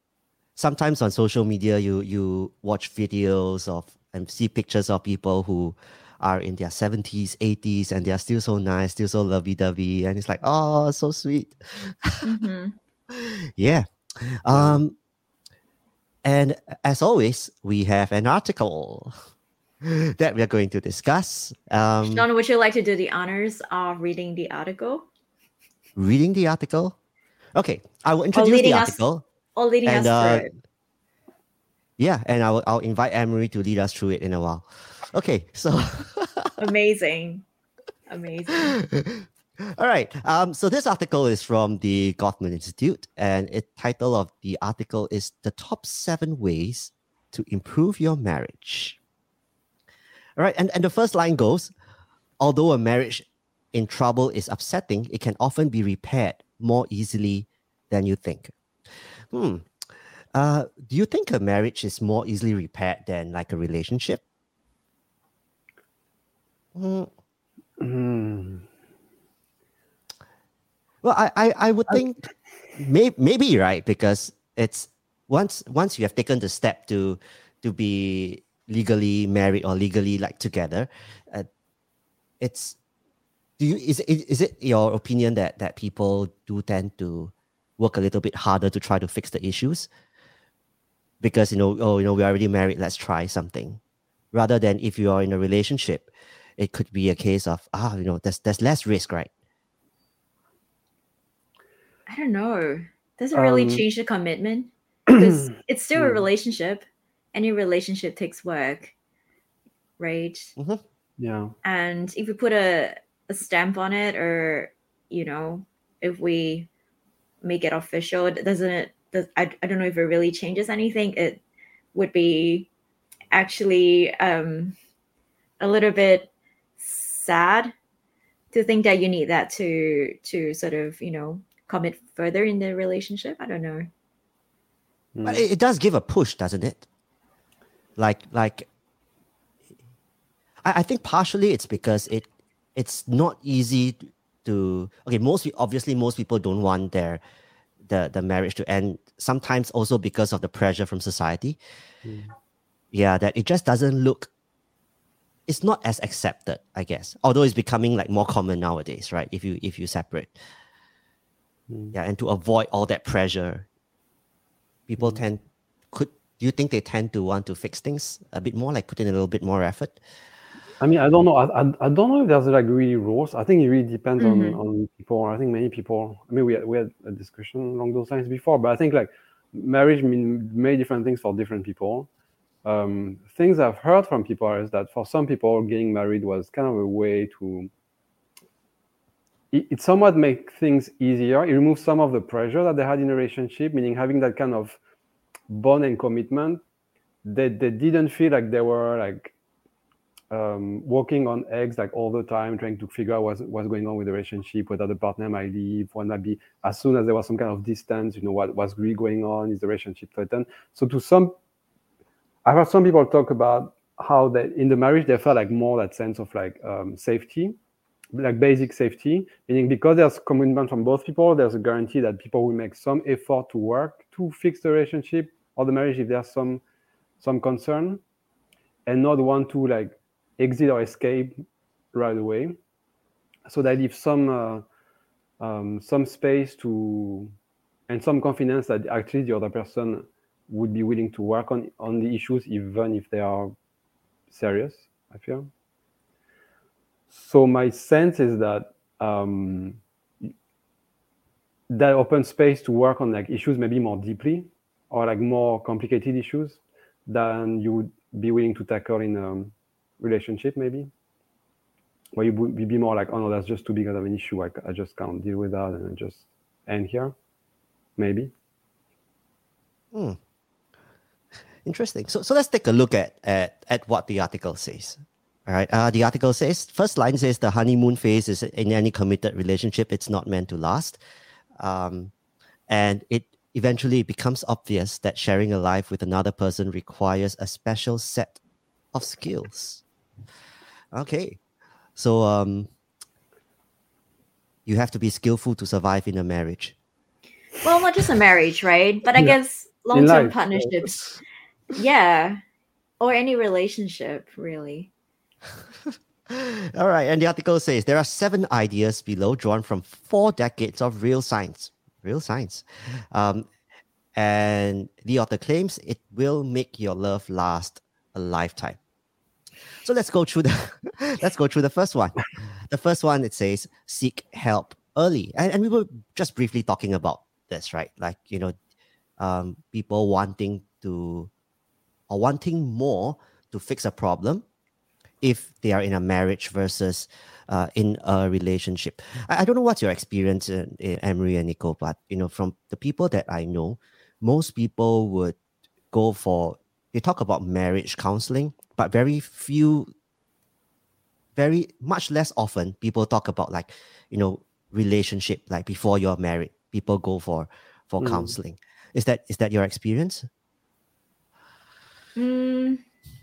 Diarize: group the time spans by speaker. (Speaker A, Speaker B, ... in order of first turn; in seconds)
Speaker A: 0.6-12.3, 13.1-14.9, 16.2-19.1, 19.8-22.2, 26.0-26.9, 27.6-29.2, 29.9-30.5, 32.0-36.6, 38.9-39.3, 39.8-49.0, 50.4-51.7, 52.4-59.7, 60.3-64.2, 66.7-67.1, 71.0-72.2, 72.8-81.5, 82.4-82.8, 83.6-89.9, 91.2-93.8, 94.3-99.3, 110.6-110.8, 135.2-136.8, 138.0-138.7, 140.6-147.2, 147.8-151.6, 152.9-154.3, 155.5-160.4, 161.9-163.7, 164.9-170.0, 269.9-270.2, 271.6-281.0, 281.6-282.1, 282.7-288.4, 288.9-289.8, 290.9-291.4, 291.9-292.7, 294.6-296.7, 306.3-313.5, 314.1-318.8, 319.8-328.5, 329.2-331.3, 332.1-334.4, 335.2-345.4, 345.9-349.9, 351.4-360.3
Speaker B: 12.2-12.7, 22.0-25.1, 28.3-29.0, 29.6-30.5, 36.6-37.4, 38.1-38.8, 102.1-108.9, 110.0-110.5, 111.6-116.7, 117.4-121.4, 121.9-122.7, 123.3-124.8, 125.6-127.7, 128.5-133.9, 174.2-174.6, 297.6-301.2, 301.7-302.4, 303.0-304.9, 362.1-362.8
Speaker C: 14.5-14.8, 67.8-68.7, 103.3-103.8, 105.1-105.4, 106.0-106.3, 111.2-111.5, 135.1-135.4, 152.0-152.3, 161.7-161.9, 170.8-182.1, 182.6-187.7, 189.5-194.8, 195.5-196.6, 197.2-199.3, 200.3-211.3, 212.4-217.6, 218.1-226.6, 227.2-228.0, 228.8-231.4, 231.9-232.6, 233.4-234.6, 235.4-237.3, 237.9-243.5, 244.3-245.5, 247.1-249.8, 251.7-260.9, 262.1-267.1, 268.0-268.3, 299.9-301.2, 358.0-358.4